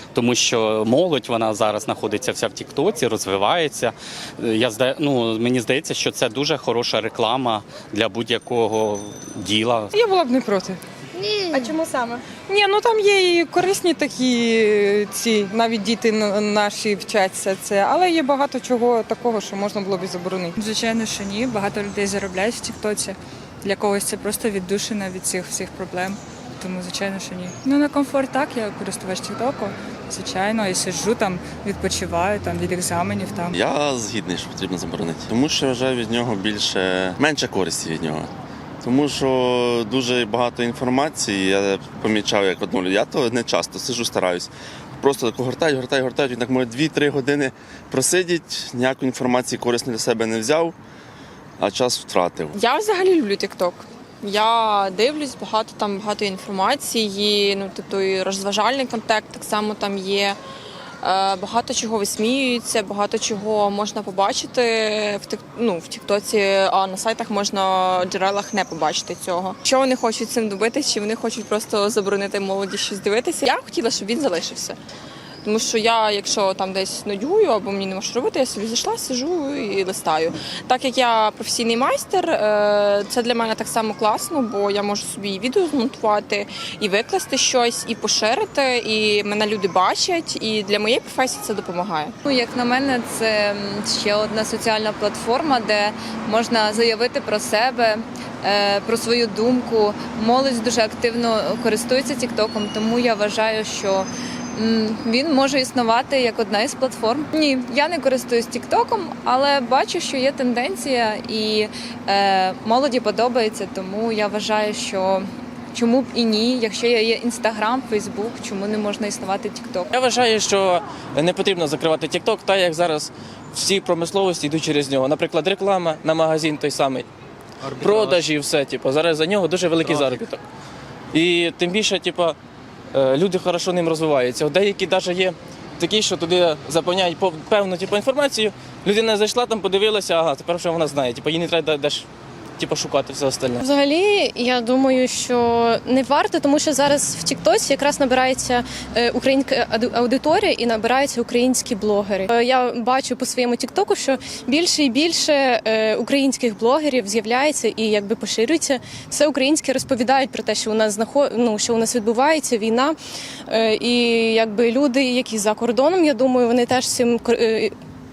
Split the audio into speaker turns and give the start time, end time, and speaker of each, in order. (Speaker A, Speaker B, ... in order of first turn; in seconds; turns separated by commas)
Speaker A: 0.1-10.0, Speaker B: 9.9-10.8, Speaker B: 11.5-20.5, Speaker C: 20.6-33.5, Speaker D: 33.6-38.3, Speaker D: 38.8-50.8, Speaker D: 51.6-52.6, Speaker E: 52.5-60.4, Speaker E: 61.0-74.8, Speaker E: 75.4-92.1, Speaker F: 92.2-119.9, Speaker G: 119.9-127.0, Speaker G: 127.7-130.4, Speaker G: 131.1-132.4, Speaker G: 132.9-142.1, Speaker G: 142.6-143.6, Speaker H: 143.6-163.0, Speaker H: 163.5-167.8